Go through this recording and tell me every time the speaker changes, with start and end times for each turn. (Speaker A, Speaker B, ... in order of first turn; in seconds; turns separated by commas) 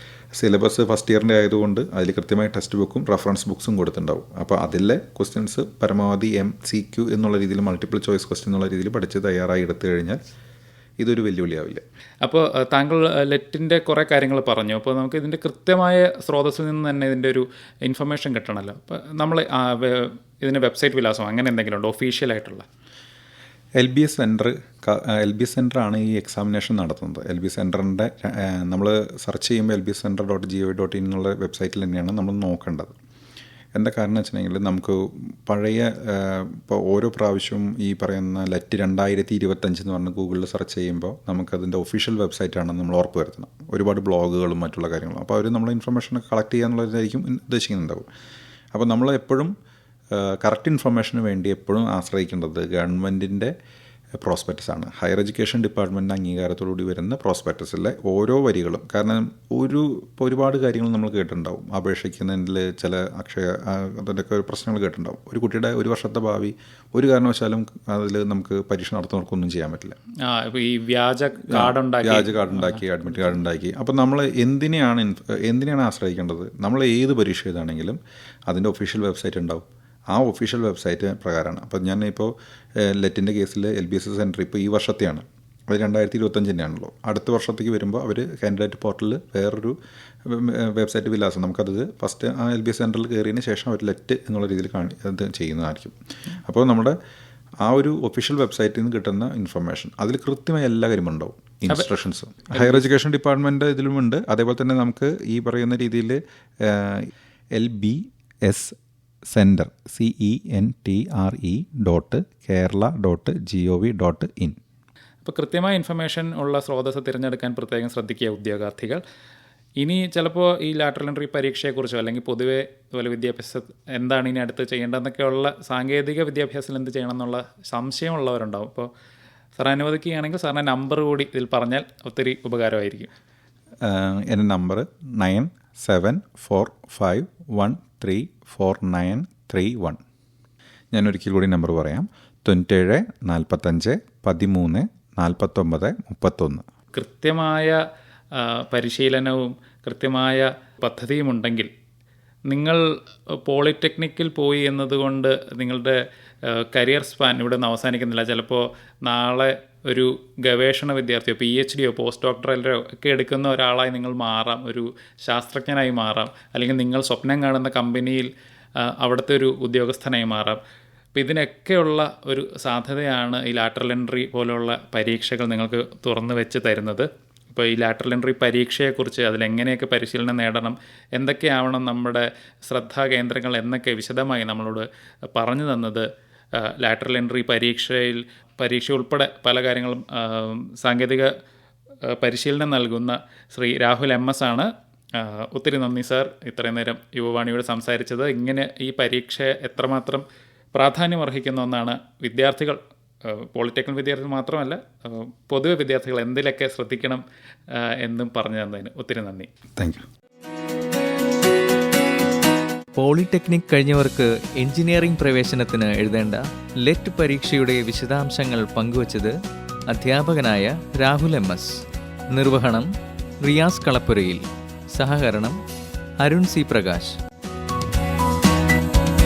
Speaker A: 0.3-10.2, Speaker A: 11.0-11.8, Speaker B: 12.2-22.6, Speaker A: 23.8-32.9, Speaker A: 33.7-48.0, Speaker A: 48.7-49.5, Speaker A: 50.1-53.5, Speaker A: 54.1-70.0, Speaker B: 70.2-72.8, Speaker A: 71.5-89.7, Speaker A: 90.2-95.9, Speaker A: 96.4-97.0, Speaker A: 97.6-108.7, Speaker B: 102.5-102.8, Speaker A: 109.3-114.5, Speaker B: 115.2-119.0, Speaker B: 119.8-128.9, Speaker B: 129.6-133.1, Speaker A: 133.8-140.0, Speaker A: 140.9-146.6, Speaker B: 146.9-147.8, Speaker B: 148.3-151.7, Speaker B: 152.5-168.3, Speaker B: 168.8-170.6, Speaker B: 171.1-191.3, Speaker B: 192.1-209.5, Speaker A: 209.8-210.0, Speaker C: 212.9-219.3, Speaker C: 219.9-221.8, Speaker C: 222.3-222.9, Speaker C: 223.4-225.6, Speaker C: 226.2-227.1